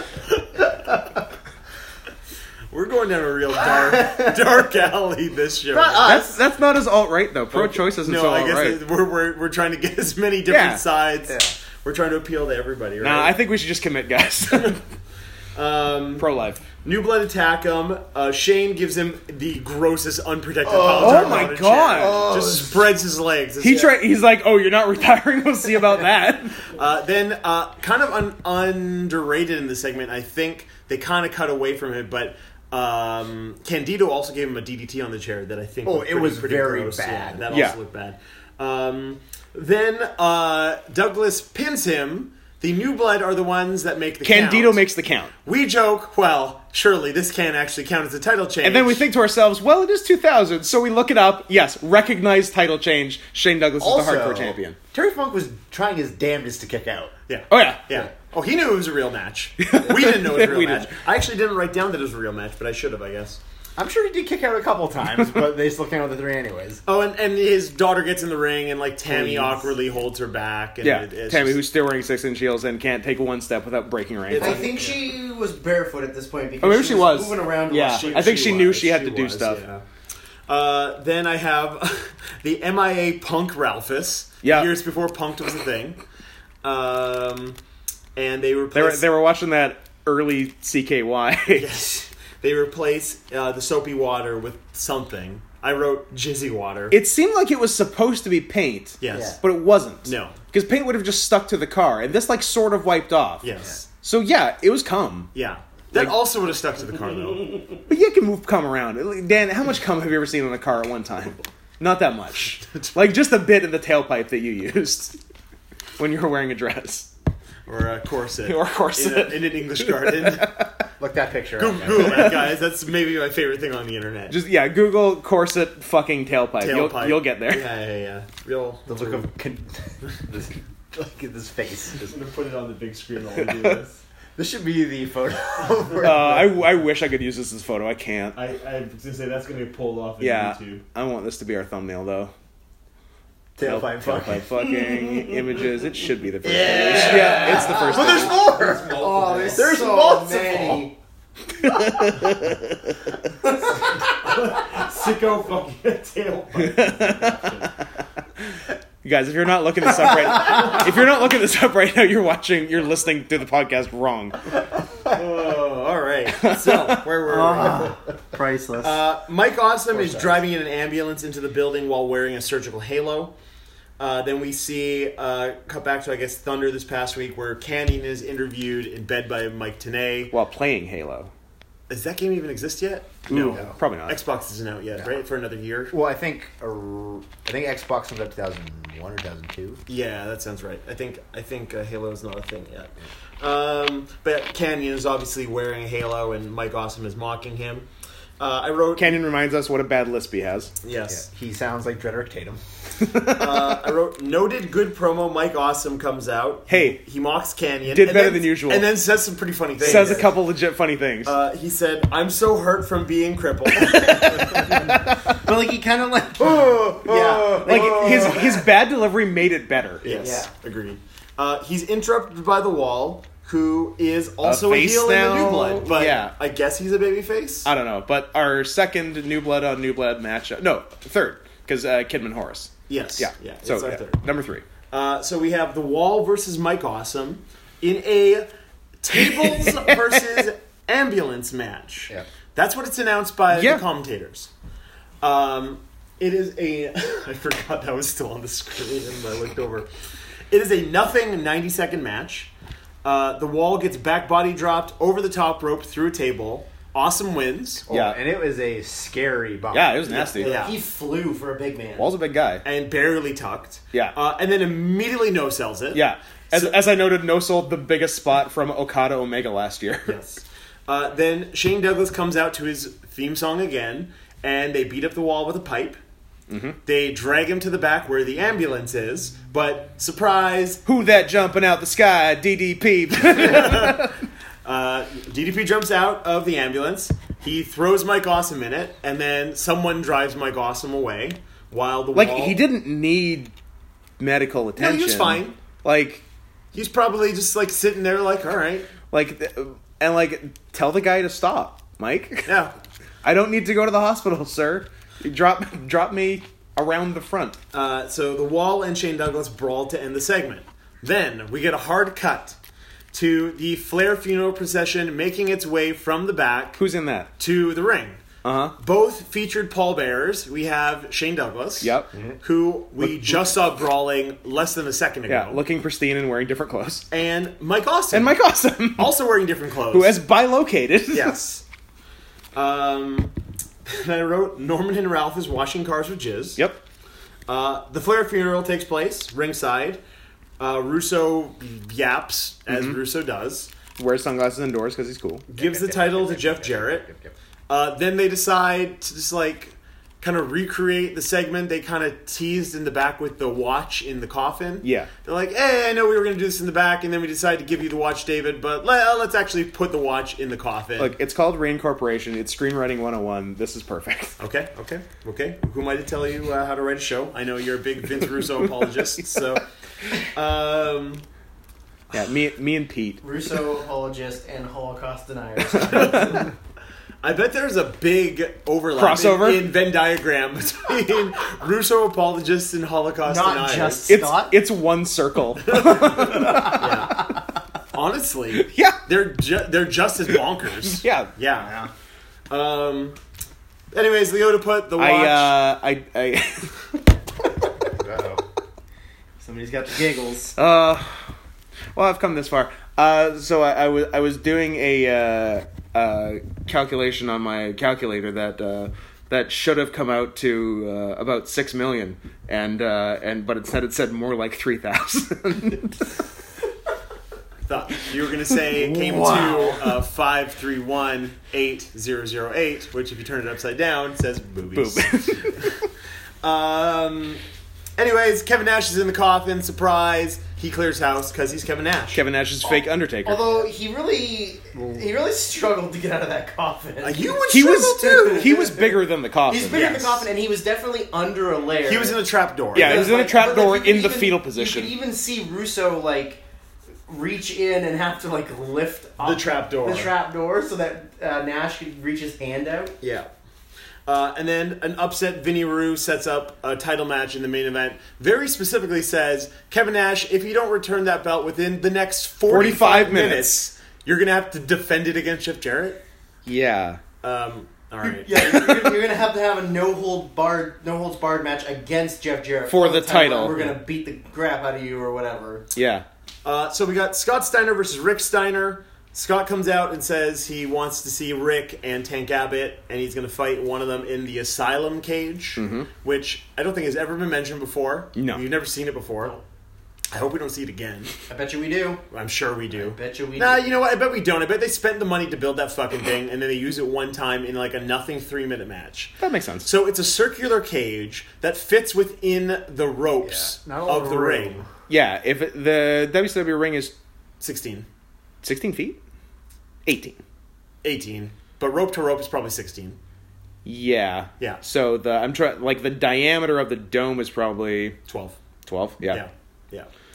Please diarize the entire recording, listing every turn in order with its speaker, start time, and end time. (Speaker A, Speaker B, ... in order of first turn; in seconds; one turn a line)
Speaker A: 2.7-6.2
Speaker B: 5.7-6.4
Speaker C: 6.0-8.8
Speaker A: 7.5-13.4
Speaker C: 10.5-10.8
Speaker C: 13.0-14.8
Speaker A: 14.5-14.8
Speaker A: 15.5-16.2
Speaker C: 16.2-16.6
Speaker A: 16.8-23.9
Speaker B: 20.6-22.9
Speaker C: 20.9-22.2
Speaker C: 23.6-26.6
Speaker A: 26.7-44.8
Speaker B: 35.8-37.5
Speaker C: 37.5-37.8
Speaker C: 44.2-45.3
Speaker A: 45.4-49.0
Speaker C: 48.6-54.8
Speaker B: 53.8-57.1
Speaker A: 57.3-63.4
Speaker C: 57.5-57.8
Speaker C: 59.6-61.0
Speaker B: 63.8-66.8
Speaker A: 66.8-71.6
Speaker B: 69.1-69.7
Speaker C: 70.8-74.7
Speaker A: 74.3-75.0
Speaker D: 74.3-78.3
Speaker C: 76.6-79.6
Speaker A: 77.8-79.8
Speaker A: 80.5-86.0
Speaker C: 84.4-84.7
Speaker A: 86.6-87.6
Speaker A: 88.2-89.0
Speaker C: 88.7-91.7
Speaker A: 91.5-97.0
Speaker C: 96.9-103.5
Speaker A: 99.0-99.4
Speaker A: 100.0-100.4
Speaker A: 103.4-103.8
Speaker C: 104.0-105.3
Speaker A: 105.3-107.7
Speaker C: 107.9-115.2
Speaker C: 116.0-117.1
Speaker A: 117.7-120.6
Speaker C: 118.5-120.7
Speaker B: 121.0-122.3
Speaker A: 121.6-124.4
Speaker C: 122.0-122.3
Speaker C: 124.3-127.7
Speaker A: 126.6-129.2
Speaker B: 128.9-132.1
Speaker A: 132.0-134.0
Speaker B: 134.3-136.5
Speaker C: 136.0-138.4
Speaker A: 138.3-140.8
Speaker C: 140.2-142.3
Speaker B: 143.6-144.4
Speaker C: 143.6-148.4
Speaker B: 146.4-150.7
Speaker D: 146.6-150.9
Speaker A: 147.0-150.8
Speaker C: 151.5-152.8
Speaker A: 153.8-157.7
Speaker C: 156.6-157.7
Speaker C: 159.0-164.4
Speaker A: 165.1-168.0
Speaker C: 166.4-167.0
Speaker D: 167.2-169.0
Speaker A: 168.8-173.3
Speaker B: 170.0-170.2
Speaker A: 174.0-180.3
Speaker C: 180.3-181.3
Speaker A: 181.9-185.9
Speaker C: 183.3-184.2
Speaker B: 185.9-189.8
Speaker A: 189.9-197.9
Speaker A: 198.4-199.2
Speaker C: 198.9-200.7
Speaker A: 200.8-201.2
Speaker B: 201.1-202.6
Speaker C: 203.0-203.7
Speaker A: 203.2-210.3
Speaker C: 206.7-207.0
Speaker C: 207.9-208.9
Speaker C: 209.8-211.3
Speaker D: 209.8-210.2
Speaker A: 211.2-214.8
Speaker D: 214.5-218.3
Speaker B: 216.4-218.4
Speaker A: 217.0-218.4
Speaker C: 217.6-220.0
Speaker A: 220.0-227.7
Speaker D: 220.0-220.5
Speaker C: 224.4-226.3
Speaker C: 227.6-234.6
Speaker A: 232.9-234.2
Speaker A: 234.9-238.5
Speaker A: 239.0-244.5
Speaker C: 239.2-240.2
Speaker C: 243.5-243.8
Speaker A: 245.2-249.9
Speaker A: 250.5-252.5
Speaker A: 253.0-257.8
Speaker B: 257.9-260.2
Speaker C: 257.9-258.2
Speaker C: 259.7-260.5
Speaker D: 260.3-262.1
Speaker A: 260.3-260.7
Speaker C: 262.0-262.6
Speaker A: 262.6-266.7
Speaker C: 265.9-270.1
Speaker A: 270.1-276.0
Speaker C: 276.5-276.8
Speaker A: 276.8-280.8
Speaker C: 280.9-284.1
Speaker A: 283.2-292.6
Speaker C: 292.1-293.5
Speaker C: 294.2-296.2
Speaker A: 294.8-295.6
Speaker A: 296.7-298.9
Speaker C: 299.1-302.5
Speaker A: 302.4-302.7
Speaker C: 303.2-307.6
Speaker A: 307.7-312.6
Speaker A: 313.1-316.8
Speaker C: 316.8-317.3
Speaker A: 317.4-318.2
Speaker C: 318.4-318.7
Speaker A: 318.8-325.6
Speaker C: 321.8-322.1
Speaker C: 323.0-323.4
Speaker C: 325.3-327.1
Speaker A: 327.1-328.4
Speaker C: 328.1-329.1
Speaker A: 329.0-330.2
Speaker C: 329.9-331.4
Speaker A: 331.1-331.6
Speaker A: 332.5-333.3
Speaker A: 333.9-336.6
Speaker A: 337.5-340.0
Speaker A: 340.6-343.7
Speaker C: 342.7-343.0
Speaker C: 344.0-345.4
Speaker A: 345.5-347.1
Speaker B: 345.6-347.3
Speaker A: 347.7-361.1
Speaker C: 354.8-355.1
Speaker C: 361.0-364.4
Speaker A: 364.4-369.6
Speaker A: 370.2-371.2
Speaker C: 372.1-373.2
Speaker D: 373.2-376.5
Speaker A: 377.2-384.1
Speaker C: 378.9-379.7
Speaker D: 383.2-384.6
Speaker C: 384.1-387.2
Speaker A: 385.7-387.3
Speaker A: 387.9-391.7
Speaker C: 388.5-389.0
Speaker C: 390.9-391.3
Speaker A: 392.5-393.2
Speaker A: 393.9-395.6
Speaker C: 395.0-396.8
Speaker B: 398.0-398.4
Speaker D: 399.4-400.6
Speaker C: 400.6-401.3
Speaker C: 401.9-416.1
Speaker A: 417.6-425.7
Speaker D: 418.7-419.9
Speaker C: 424.7-425.8
Speaker A: 426.4-427.4
Speaker A: 428.0-432.2
Speaker C: 432.1-433.6
Speaker D: 432.7-442.2
Speaker A: 437.0-438.6
Speaker C: 437.5-439.8
Speaker A: 439.7-440.2
Speaker A: 441.8-443.1
Speaker C: 442.7-444.9
Speaker D: 442.8-446.4
Speaker D: 447.1-452.9
Speaker A: 449.2-450.1
Speaker A: 453.0-453.3
Speaker A: 454.1-466.0
Speaker C: 462.5-463.6
Speaker C: 466.4-467.0
Speaker A: 467.2-468.9
Speaker D: 468.1-475.6
Speaker C: 472.7-473.7
Speaker C: 475.7-476.0
Speaker A: 476.4-489.4
Speaker C: 485.6-485.9
Speaker C: 488.1-488.4
Speaker A: 490.1-491.1
Speaker D: 491.3-492.0
Speaker A: 492.1-504.6
Speaker D: 492.7-493.7
Speaker C: 499.2-499.7
Speaker B: 503.2-504.6
Speaker C: 504.9-506.9
Speaker A: 507.4-507.9
Speaker C: 508.4-509.0
Speaker C: 509.9-510.2
Speaker A: 510.8-513.0
Speaker C: 513.6-518.0
Speaker A: 518.1-518.4
Speaker C: 518.6-519.2
Speaker A: 519.1-519.9